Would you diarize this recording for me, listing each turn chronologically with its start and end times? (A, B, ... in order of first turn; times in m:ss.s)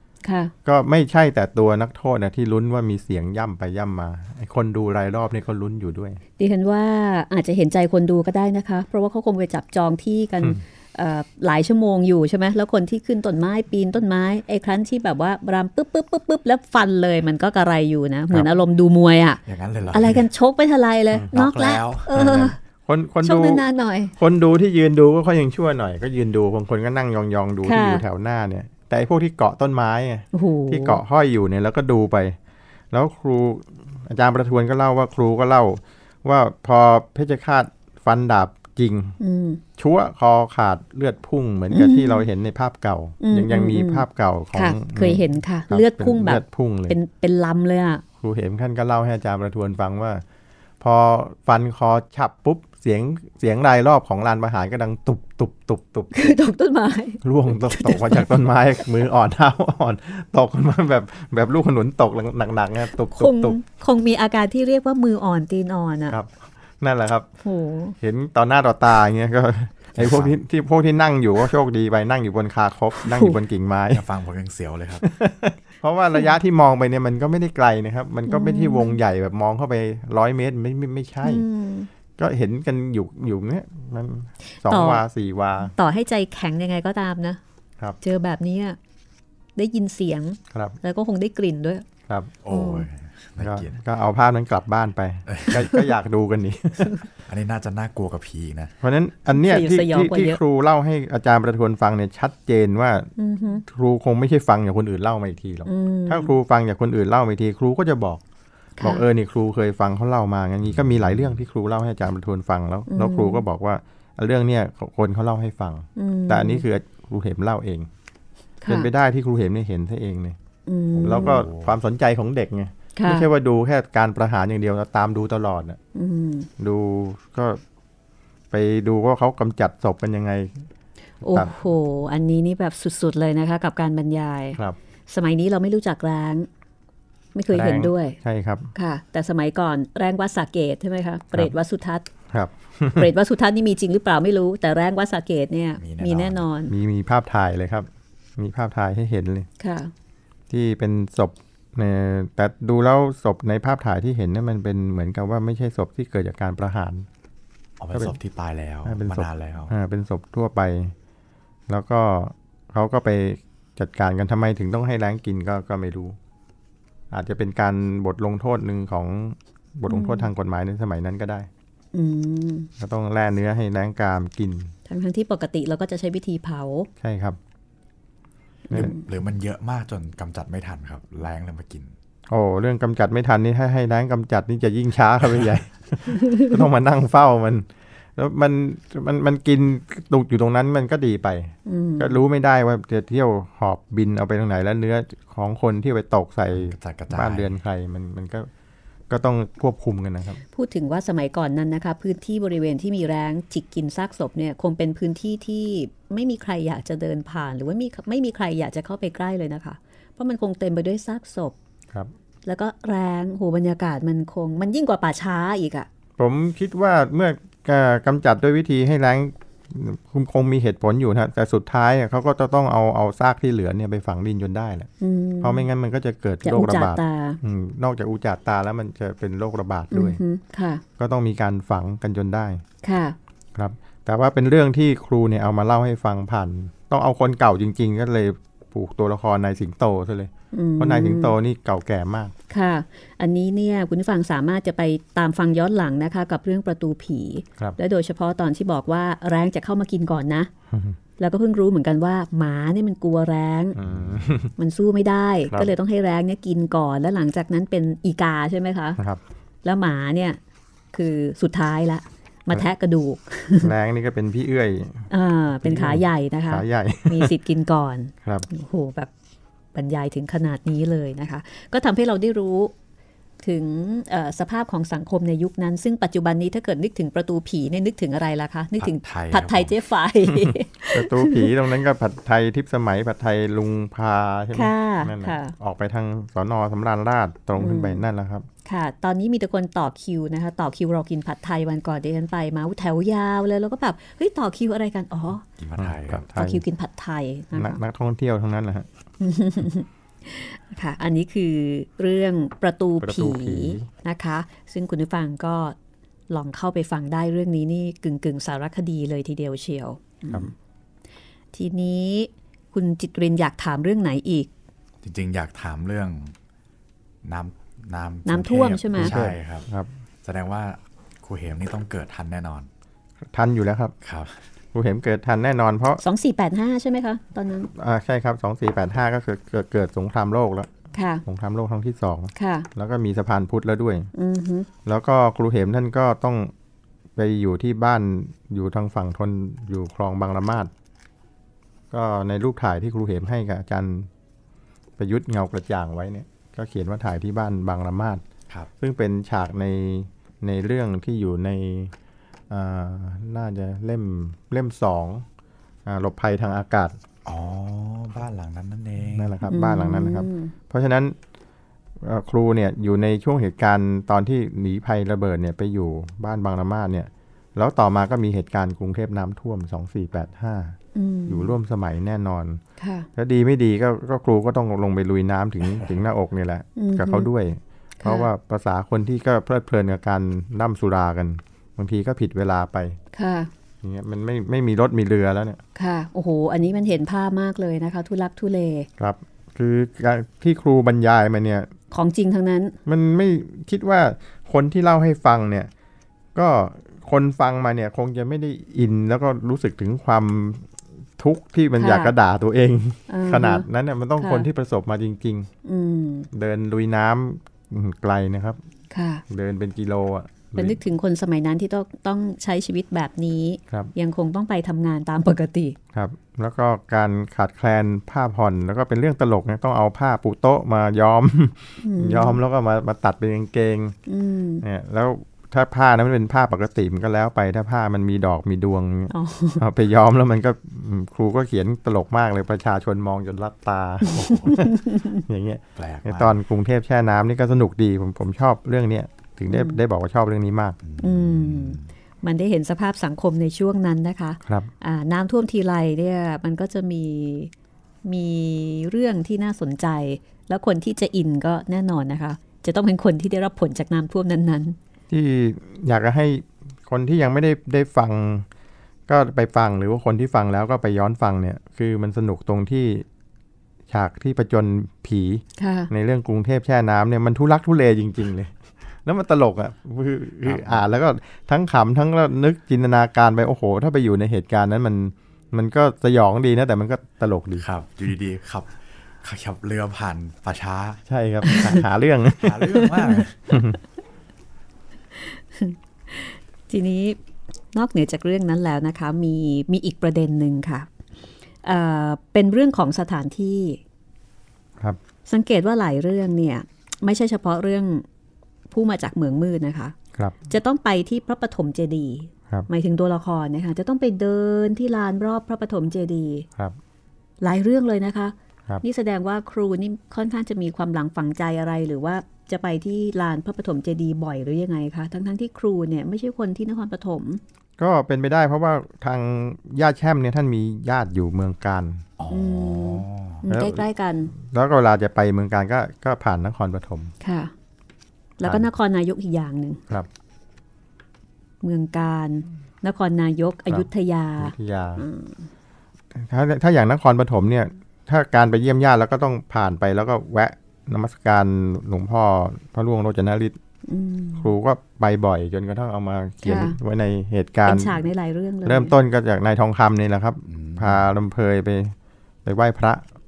0:00.2-0:00.5 A
0:00.6-0:06.2 B
0:06.4-0:19.4 A
0:19.4-0:20.3 C
0:19.9-0:22.6 A
0:21.3-0:22.1 C
0:22.1-0:23.6 B
0:23.2-0:24.1 A
0:24.2-0:32.4 B
0:27.6-0:28.0 A
0:30.3-0:31.0 A
0:32.9-0:39.2 B
0:39.2-0:39.6 A
0:39.8-0:47.0 B
0:41.7-0:42.2 A
0:43.2-0:48.0 A
0:48.2-0:50.2 B
0:50.8-0:56.4 B
0:56.1-0:58.4 A
0:57.2-1:03.6 B
1:03.0-1:06.2 A
1:06.1-1:07.3 B
1:07.4-1:08.0 A
1:08.0-1:14.0 B
1:09.9-1:10.4 C
1:13.0-1:13.4 A
1:13.9-1:15.1 C
1:15.0-1:21.4 B
1:18.3-1:18.9 A
1:21.2-1:21.9 A
1:22.2-1:25.7 B
1:24.6-1:25.0 A
1:25.6-1:27.4 A
1:28.0-1:28.8 A
1:29.6-1:31.8 A
1:30.5-1:30.8 B
1:32.4-1:33.8 C
1:32.5-1:32.9 A
1:33.4-1:37.0 B
1:35.3-1:35.7 C
1:37.3-1:38.8 C
1:38.8-1:43.1 B
1:39.3-1:40.4 A
1:43.2-1:43.6 A
1:43.6-1:48.2 B
1:45.6-1:46.3 A
1:48.8-1:49.0 A
1:48.8-1:57.9 B
1:52.9-1:53.4 A
1:56.0-1:56.6 A
1:58.6-1:58.9 A
1:58.7-2:00.4 B
2:00.6-2:01.4 A
2:00.9-2:01.7 C
2:01.0-2:05.8 B
2:03.0-2:03.3 A
2:05.9-2:06.5 A
2:06.6-2:07.6 B
2:08.5-2:10.6 B
2:11.2-2:16.5 A
2:11.2-2:11.5 B
2:17.3-2:18.2 A
2:17.5-2:18.7 B
2:18.7-2:22.0 A
2:22.3-2:23.1 B
2:22.9-2:26.7 A
2:25.8-2:26.4 C
2:26.7-2:29.5 B
2:29.6-2:29.9 A
2:30.5-2:37.1 B
2:37.8-2:39.7 C
2:38.9-2:40.9 B
2:41.7-2:46.2 B
2:47.1-2:51.5 B
2:49.9-2:50.3 A
2:51.9-2:52.7 A
2:52.8-2:54.7 B
2:54.9-2:56.9 A
2:57.0-2:57.4 B
2:58.7-2:59.0 A
2:58.7-3:01.9 C
3:02.3-3:18.5 B
3:06.1-3:06.5 A
3:11.6-3:12.2 A
3:16.5-3:17.5 C
3:19.1-3:20.4 B
3:20.5-3:31.6 A
3:32.4-3:35.9 A
3:36.2-3:44.9 B
3:45.0-3:45.6 A
3:45.4-3:50.2 B
3:46.4-3:47.4 A
3:49.9-3:50.8 A
3:51.0-3:52.6 B
3:52.8-3:53.2 A
3:53.6-4:02.3 B
4:00.5-4:01.3 A
4:02.5-4:10.5 A
4:10.7-4:11.0 B
4:11.2-4:13.8 A
4:13.7-4:14.5 B
4:13.9-4:14.2 C
4:14.6-4:19.0 A
4:19.6-4:20.4 A
4:20.9-4:23.7 A
4:23.6-4:25.1 B
4:25.1-4:29.1 A
4:25.6-4:27.3 B
4:29.7-4:32.7 A
4:33.4-4:41.5 A
4:38.8-4:39.7 C
4:40.9-4:48.5 B
4:44.5-4:45.5 A
4:47.6-4:48.0 A
4:48.6-4:55.4 A
4:55.6-4:56.3 C
4:55.8-4:56.6 B
4:56.3-4:57.8 A
4:57.6-4:58.9 B
4:59.2-5:05.8 A
5:03.0-5:03.9 B
5:06.3-5:10.5 A
5:11.5-5:14.5 A
5:15.0-5:16.3 C
5:17.2-5:19.7 C
5:18.2-5:19.1 A
5:19.0-5:19.9 B
5:20.2-5:22.7 C
5:23.3-5:23.9 B
5:24.0-5:24.4 C
5:24.7-5:26.0 B
5:26.0-5:27.7 A
5:27.7-5:30.7 B
5:30.9-5:31.2 A
5:31.2-5:34.1 B
5:32.3-5:32.7 A
5:34.1-5:34.7 A
5:34.9-5:36.5 B
5:37.2-5:40.7 B
5:41.9-5:44.1 B
5:45.0-5:48.2 B
5:48.8-5:51.9 B
5:52.5-5:55.2 B
5:55.9-5:57.0 B
5:57.2-5:59.4 C
5:59.1-6:01.2 B
5:59.5-6:00.5 A
6:02.0-6:10.8 B
6:10.9-6:11.5 A
6:11.3-6:12.6 B
6:12.8-6:13.1 A
6:13.1-6:23.0 B
6:16.8-6:17.3 A
6:18.0-6:18.3 A
6:23.1-6:23.5 A
6:23.8-6:25.6 B
6:25.8-6:28.9 A
6:29.0-6:31.7 B
6:31.9-6:32.8 A
6:32.9-6:35.7 B
6:36.3-6:45.5 B
6:41.8-6:42.1 A
6:43.1-6:43.6 A
6:44.2-6:44.5 A
6:45.6-6:46.3 A
6:46.3-6:48.6 B
6:48.9-6:49.2 A
6:49.3-6:50.8 B
6:50.6-6:55.8 A
6:55.9-7:04.0 B
7:01.8-7:02.4 A
7:04.1-7:04.6 A
7:04.6-7:20.8 B
7:09.1-7:09.6 A
7:14.1-7:14.6 C
7:14.5-7:15.2 A
7:15.8-7:16.4 C
7:19.5-7:19.8 A
7:20.8-7:21.9 C
7:21.0-7:27.5 A
7:24.4-7:24.7 B
7:28.0-7:34.8 A
7:35.1-7:38.5 B
7:39.1-7:43.0 B
7:43.9-7:57.6 B
7:45.6-7:45.9 A
7:50.4-7:50.8 C
7:57.6-8:01.0 C
8:01.1-8:03.8 B
8:01.4-8:01.8 A
8:02.4-8:03.6 C
8:05.1-8:07.2 A
8:07.7-8:10.9 A
8:11.6-8:13.8 A
8:15.3-8:18.0 A
8:18.7-8:20.0 A
8:20.5-8:26.5 A
8:27.4-8:37.4 A
8:37.8-8:42.0 B
8:42.2-8:43.4 C
8:42.3-8:44.3 A
8:43.5-8:47.1 B
8:47.2-8:47.5 A
8:48.4-8:49.8 A
8:51.6-8:55.5 A
8:54.4-8:55.0 B
8:56.1-9:03.6 B
9:03.9-9:04.5 A
9:04.4-9:08.0 B
9:06.4-9:06.8 A
9:07.6-9:08.9 A
9:08.6-9:13.0 B
9:10.5-9:11.1 C